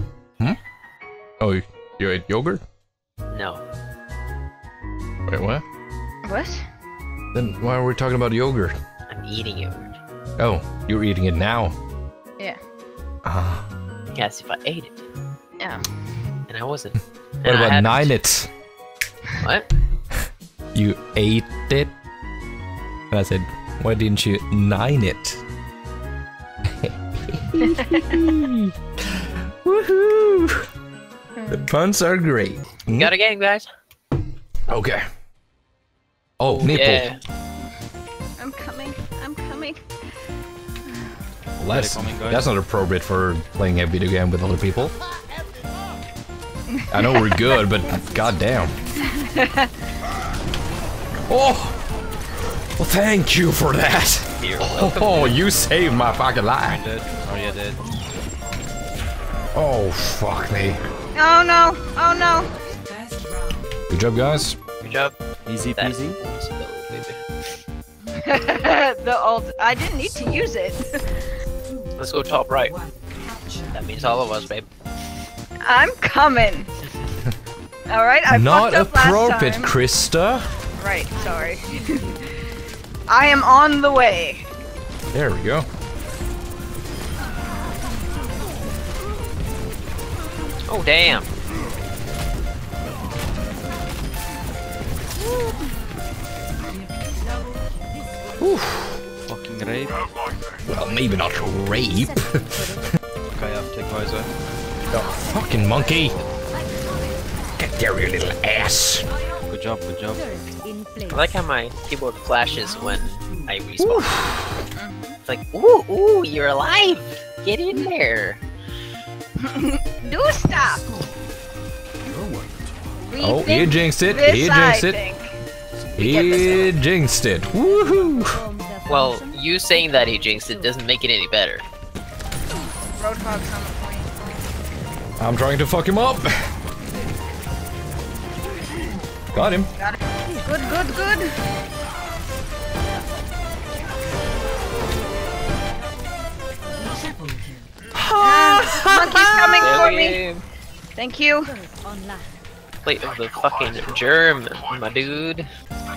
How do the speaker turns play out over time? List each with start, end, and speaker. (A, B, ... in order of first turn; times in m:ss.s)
0:01.4-0:02.6 A
0:03.3-0:03.6 B
0:05.3-0:05.6 A
0:06.2-0:06.6 C
0:07.3-0:08.8 A
0:09.1-0:09.9 B
0:10.4-0:11.7 A
0:13.2-0:13.6 A
0:14.1-0:15.0 B
0:16.5-0:18.2 B
0:17.4-0:18.5 A
0:19.4-0:19.7 B
0:20.7-0:21.9 A
0:23.1-0:25.4 A
0:26.8-0:30.6 A
0:27.6-0:28.0 C
0:31.5-0:33.1 A
0:32.9-0:33.6 B
0:34.7-0:35.0 A
0:36.4-0:37.1 A
0:36.6-0:37.2 B
0:38.4-0:39.8 C
0:41.6-0:44.9 A
0:41.8-0:42.5 D
0:46.9-0:48.8 A
0:46.9-0:47.2 C
0:49.1-0:49.7 C
0:51.3-0:51.8 A
0:52.8-0:56.8 A
0:54.4-0:55.4 B
0:56.7-0:57.8 D
0:59.5-1:00.8 A
1:01.1-1:02.5 C
1:03.9-1:04.6 A
1:04.8-1:05.1 B
1:05.4-1:06.2 D
1:05.7-1:07.2 B
1:08.2-1:11.2 C
1:12.0-1:12.8 B
1:13.7-1:14.7 B
1:15.6-1:16.7 C
1:17.9-1:19.7 C
1:18.3-1:20.5 A
1:20.8-1:22.2 C
1:23.1-1:24.4 C
1:25.1-1:25.7 A
1:30.7-1:31.3 B
1:38.4-1:39.0 A
1:39.2-1:40.0 D
1:40.6-1:42.8 A
1:43.3-1:44.3 D
1:45.2-1:46.2 A
1:47.6-1:49.0 A
1:49.5-1:50.4 D
1:51.1-1:54.1 B
1:53.8-1:54.6 A
1:54.8-1:55.2 C
1:55.2-1:58.4 B
1:59.4-2:00.8 C
2:03.1-2:05.3 C
2:03.2-2:05.0 A
2:06.0-2:08.4 A
2:06.0-2:06.6 C
2:06.0-2:06.7 B
2:08.9-2:11.6 B
2:13.0-2:14.1 C
2:15.2-2:16.3 A
2:19.3-2:19.7 A
2:19.8-2:21.3 C
2:28.0-2:29.7 A
2:28.2-2:30.2 C
2:29.6-2:30.4 B
2:31.0-2:31.5 C
2:32.8-2:35.5 B